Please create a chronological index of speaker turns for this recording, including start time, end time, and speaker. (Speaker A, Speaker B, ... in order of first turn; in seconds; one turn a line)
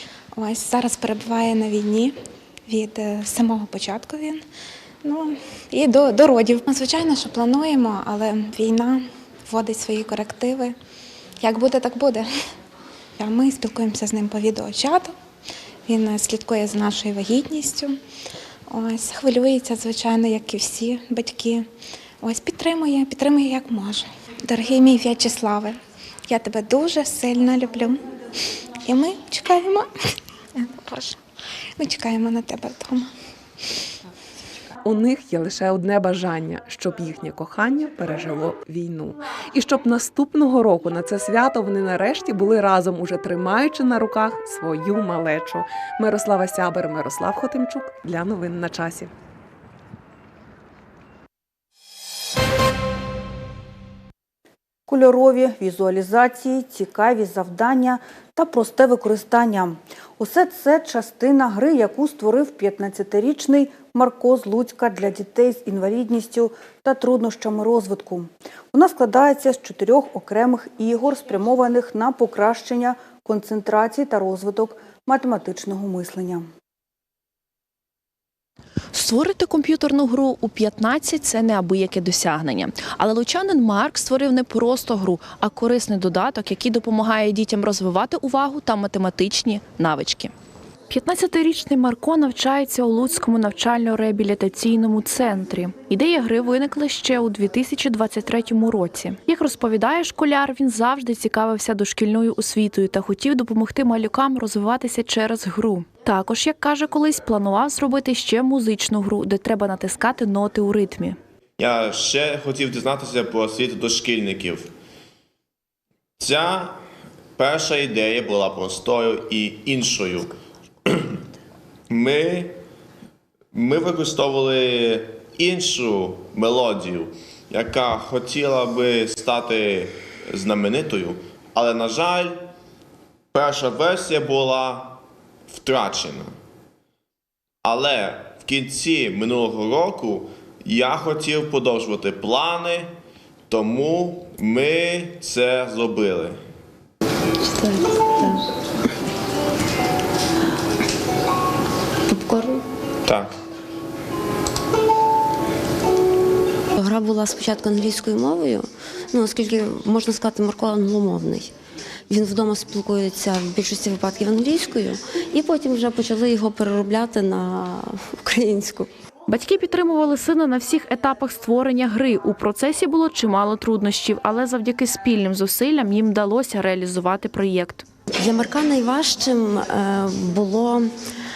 Speaker A: 0.3-2.1
Speaker A: 2.7-4.4
Speaker A: 5.0-10.8
Speaker A: 11.4-12.3
Speaker A: 13.2-15.1
Speaker A: 15.9-18.0
Speaker A: 18.7-21.7
Speaker A: 22.2-28.1
Speaker A: 28.8-29.9
Speaker A: 30.5-31.2
Speaker A: 31.8-33.1
Speaker B: 34.8-49.1
Speaker C: 54.9-76.5
Speaker D: 78.9-90.3
Speaker D: 90.9-111.2
Speaker E: 111.6-114.7
Speaker E: 116.2-116.8
Speaker E: 117.4-120.3
Speaker E: 120.9-121.1
Speaker E: 121.9-122.5
Speaker E: 123.5-132.4
Speaker E: 133.3-136.3
Speaker E: 137.6-142.9
Speaker E: 143.5-146.4
Speaker F: 147.4-148.4
Speaker F: 152.1-152.6
Speaker E: 153.1-153.3
Speaker F: 156.8-161.5
Speaker F: 162.1-168.9
Speaker D: 169.3-177.8
Speaker F: 178.1-180.9